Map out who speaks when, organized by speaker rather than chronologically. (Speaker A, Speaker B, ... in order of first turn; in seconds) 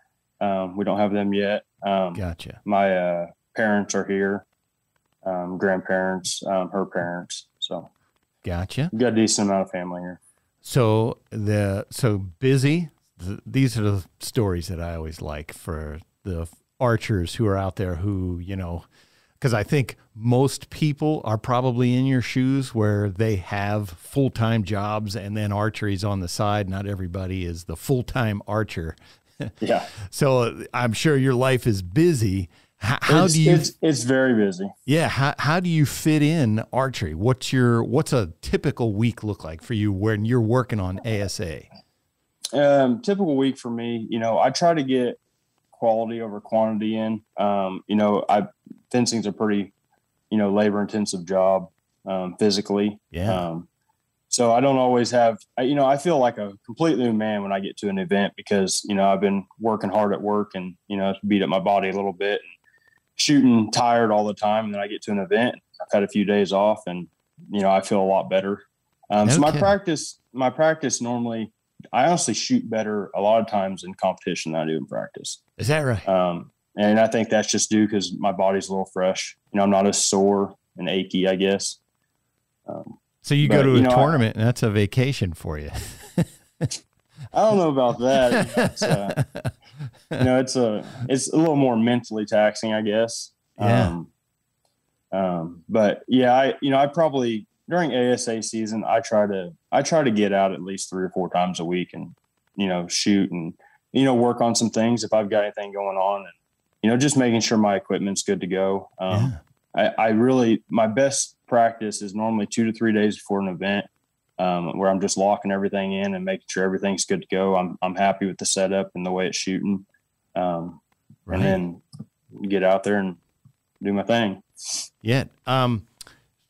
Speaker A: 0.4-4.5, 5.2-7.9, 8.9-10.2, 29.6-29.9, 33.1-34.7, 42.5-45.2, 45.7-49.7, 50.3-53.7, 54.3-62.5, 63.2-75.4, 76.1-81.8, 82.7-84.2, 87.3-89.2, 90.2-94.1, 95.1-113.9, 114.4-123.2, 123.8-124.4
Speaker B: 2.2-2.6, 8.4-8.9, 10.6-18.9, 19.4-33.7, 34.9-41.7, 53.1-53.5, 69.2-69.7, 75.6-76.1, 83.2-86.7, 88.4-89.5, 93.6-94.0, 109.1-109.4, 121.3-121.6, 125.0-125.9